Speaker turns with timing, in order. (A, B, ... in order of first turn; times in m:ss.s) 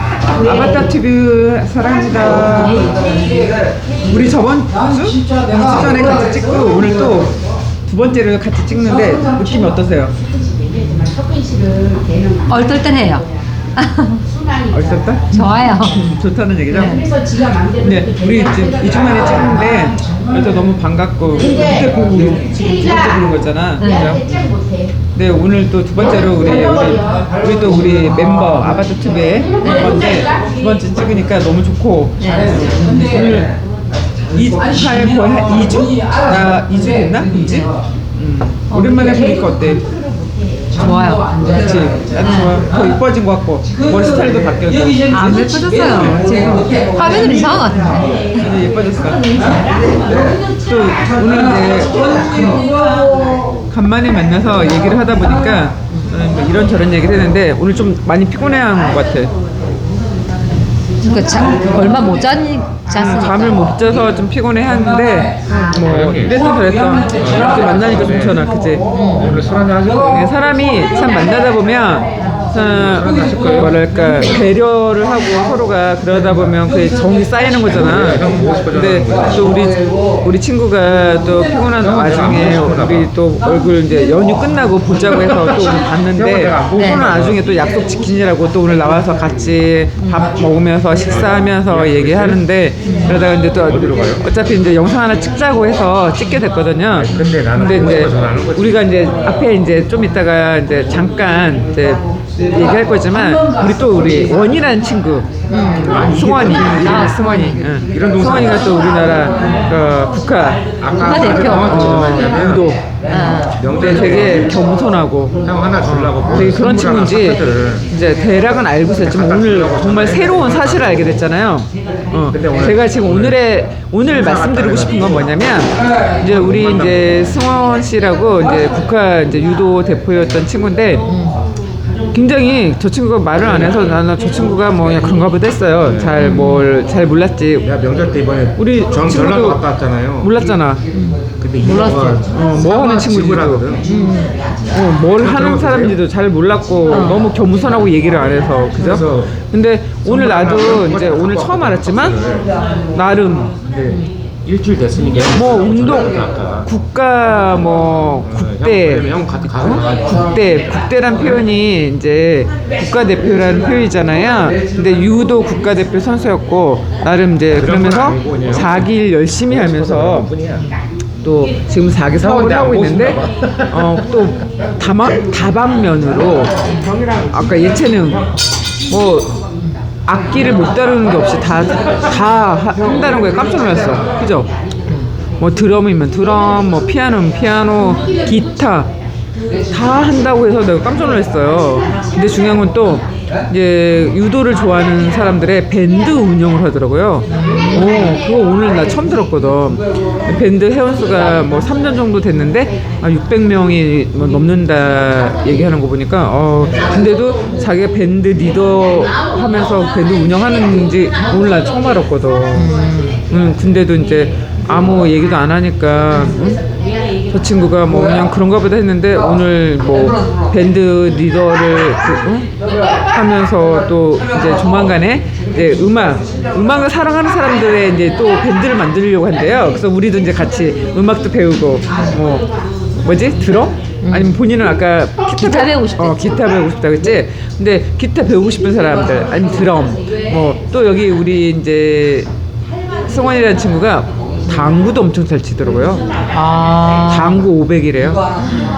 0:00.4-0:02.9 A
0:04.0-0:07.3 A
0:07.9-0:10.1 A
0:12.5-0:14.2 B
0:14.7-0:17.0 A
0:15.3-0:16.0 B
0:16.7-0:17.0 B
0:17.8-0:24.3 A
0:23.8-0:24.2 B
0:25.1-0:33.5 A
0:32.2-0:33.0 B
0:34.3-0:37.6 A
0:37.3-0:37.7 B
0:38.2-0:39.8 A
0:38.7-0:39.5 B
0:40.8-0:41.3 B
0:41.5-0:45.0 A
0:42.2-0:42.6 B
0:45.1-0:48.1 B
0:45.9-0:46.2 A
0:48.4-0:49.2 A
0:50.7-0:52.6 A
0:53.7-0:59.3 A
1:01.0-1:03.7 B
1:02.9-1:08.8 A
1:05.5-1:05.8 B
1:05.8-1:06.4 C
1:07.2-1:08.4 C
1:08.9-1:09.4 B
1:09.1-1:10.3 C
1:10.0-1:45.3 A
1:12.6-1:13.8 C
1:17.7-1:19.7 C
1:21.8-1:23.1 C
1:26.2-1:27.4 C
1:26.7-1:27.1 B
1:30.0-1:30.3 B
1:31.0-1:32.4 C
1:32.8-1:33.2 B
1:33.6-1:34.2 C
1:36.9-1:39.0 C
1:45.5-1:47.6 B
1:45.8-1:47.1 C
1:45.8-1:50.6 A
1:47.9-1:48.8 C
1:50.8-1:52.6 C
1:51.0-1:51.9 B
1:51.3-1:52.8 A
1:53.1-1:53.6 B
1:53.6-1:54.6 C
1:53.7-2:11.1 A
1:55.4-1:57.9 C
1:59.0-2:01.2 C
2:02.3-2:03.4 C
2:04.0-2:05.3 C
2:06.2-2:07.2 C
2:11.0-2:11.4 B
2:12.1-2:17.7 A
2:13.4-2:13.7 C
2:16.2-2:16.7 B
2:17.6-2:20.3 C
2:18.6-2:19.6 A
2:20.2-2:20.8 A
2:20.9-2:22.2 B
2:21.4-2:23.9 C
2:22.3-2:23.7 A
2:23.8-2:24.4 B
2:24.7-2:32.2 A
2:25.1-2:26.0 C
2:26.9-2:27.2 B
2:28.8-2:29.3 C
2:30.1-2:32.5 C
2:32.9-2:33.6 A
2:33.7-2:36.7 C
2:35.3-2:50.3 A
2:38.3-2:40.3 C
2:47.6-2:48.9 C
2:49.5-2:50.7 C
2:51.2-2:53.2 A
2:52.2-2:54.0 C
2:53.7-2:56.5 A
2:57.3-2:58.2 A
2:58.9-2:59.3 A
3:00.1-3:04.5 A
3:05.4-3:08.9 A
3:09.7-3:32.7 A
3:17.3-3:18.2 B
3:32.5-3:33.2 B
3:33.3-3:36.6 A
3:37.3-3:42.5 A
3:43.1-3:52.5 A
3:53.0-4:02.3 A
3:54.0-3:54.4 B
3:55.2-3:56.4 B
4:03.1-4:06.1 A
4:06.3-4:07.4 B
4:07.1-4:08.2 A